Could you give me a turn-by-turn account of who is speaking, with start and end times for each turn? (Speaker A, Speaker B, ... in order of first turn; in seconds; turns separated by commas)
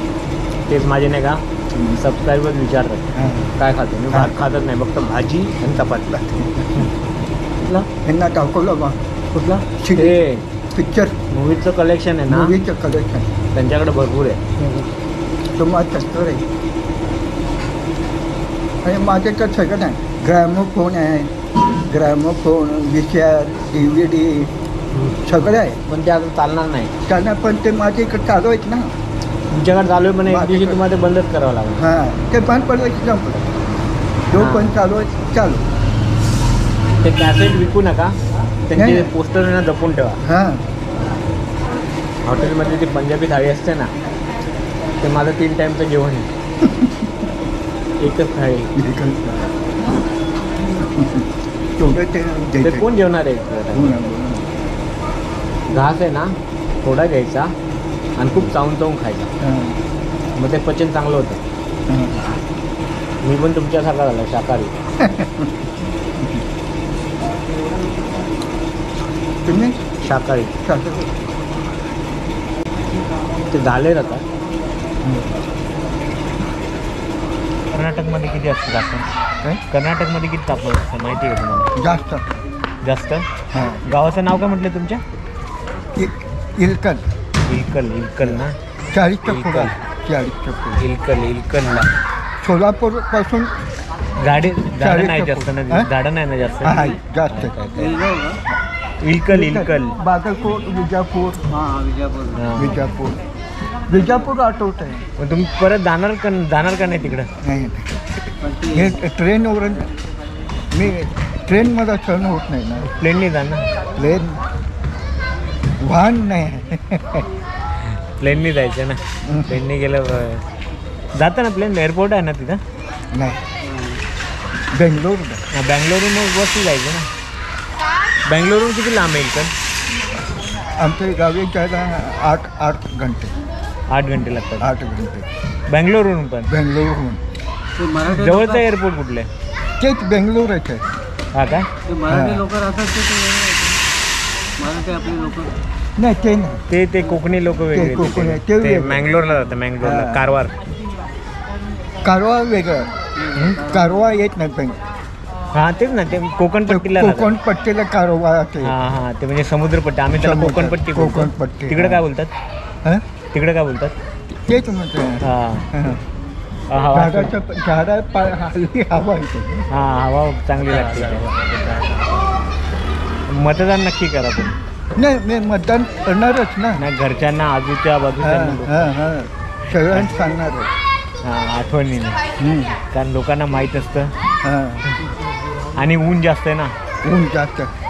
Speaker A: 0.7-6.2, Speaker B: 3.2-3.5, Speaker B: 4.1-4.5, Speaker B: 6.1-6.9, Speaker B: 8.0-9.0, Speaker C: 9.3-9.6, Speaker B: 9.8-10.2, Speaker A: 9.9-10.4, Speaker B: 10.7-11.2, Speaker A: 11.3-12.6, Speaker B: 12.3-13.3, Speaker A: 13.5-14.4, Speaker C: 14.6-14.9, Speaker B: 15.6-16.4, Speaker B: 18.8-21.3, Speaker B: 21.9-24.5, Speaker B: 25.1-25.8, Speaker A: 25.9-26.9, Speaker B: 27.1-28.9, Speaker A: 29.5-31.9, Speaker B: 30.3-30.8, Speaker B: 31.8-33.5, Speaker B: 34.3-35.6, Speaker A: 34.4-34.7, Speaker A: 37.0-40.2, Speaker B: 38.8-39.1, Speaker B: 40.2-40.6, Speaker A: 42.2-43.9, Speaker A: 45.0-46.3, Speaker B: 46.6-47.1, Speaker A: 48.0-48.7, Speaker B: 48.8-49.5, Speaker B: 50.8-51.3, Speaker B: 51.8-52.9, Speaker A: 52.6-54.0, Speaker B: 53.7-54.5, Speaker A: 55.7-57.5, Speaker A: 58.2-59.3, Speaker B: 59.4-59.8, Speaker A: 60.4-61.4, Speaker B: 61.9-62.4, Speaker A: 63.2-64.7, Speaker B: 65.0-65.5, Speaker B: 69.5-69.8, Speaker A: 70.0-70.6, Speaker B: 70.7-71.2, Speaker A: 73.5-74.2, Speaker A: 77.7-79.1, Speaker A: 79.7-81.7, Speaker B: 81.8-82.3, Speaker A: 82.8-83.3, Speaker B: 83.5-83.8, Speaker A: 83.8-85.0, Speaker B: 86.0-87.0, Speaker A: 87.5-88.6, Speaker B: 88.9-90.8, Speaker A: 89.3-89.8, Speaker A: 90.8-91.9, Speaker B: 92.4-93.5, Speaker A: 94.2-98.1, Speaker B: 94.8-95.9, Speaker B: 96.6-97.5, Speaker C: 97.9-98.4, Speaker A: 99.0-100.0, Speaker B: 99.3-101.5, Speaker C: 101.6-102.4, Speaker A: 102.3-102.8, Speaker B: 102.6-103.2, Speaker B: 103.9-105.0, Speaker A: 105.2-107.3, Speaker B: 107.4-108.0, Speaker C: 108.5-108.8, Speaker B: 108.6-109.9, Speaker B: 110.7-112.9, Speaker A: 112.8-113.7, Speaker B: 114.0-114.4, Speaker B: 115.8-117.3, Speaker A: 118.2-120.4, Speaker B: 119.3-119.6, Speaker A: 121.2-122.6, Speaker B: 123.1-123.4, Speaker B: 124.7-125.4, Speaker A: 125.5-127.1, Speaker A: 128.3-129.5, Speaker B: 130.8-133.3, Speaker A: 133.9-134.7, Speaker B: 134.6-135.3, Speaker A: 135.7-136.5, Speaker B: 136.5-137.2, Speaker C: 137.8-138.6, Speaker A: 138.1-139.3, Speaker B: 139.8-140.8, Speaker A: 141.3-141.7, Speaker C: 141.9-143.7, Speaker B: 142.1-142.5, Speaker C: 144.6-145.5, Speaker B: 146.0-146.6, Speaker A: 146.7-150.6, Speaker B: 147.7-149.2, Speaker B: 149.8-150.3, Speaker B: 152.0-152.9, Speaker C: 153.2-153.8, Speaker A: 153.3-153.6, Speaker B: 153.6-154.8, Speaker A: 155.5-157.3, Speaker B: 156.7-158.8, Speaker A: 158.6-162.3, Speaker B: 160.2-162.0, Speaker A: 163.3-163.9, Speaker B: 164.3-166.0, Speaker A: 165.2-165.7, Speaker A: 166.7-167.3, Speaker B: 166.9-169.7, Speaker A: 169.7-171.3, Speaker A: 173.3-174.5, Speaker B: 175.0-176.8, Speaker A: 176.8-178.9, Speaker B: 178.2-180.7, Speaker A: 179.9-180.2, Speaker A: 181.2-182.2, Speaker B: 182.4-182.8, Speaker A: 182.9-184.1, Speaker B: 184.4-184.9, Speaker A: 185.8-186.7, Speaker B: 187.0-187.7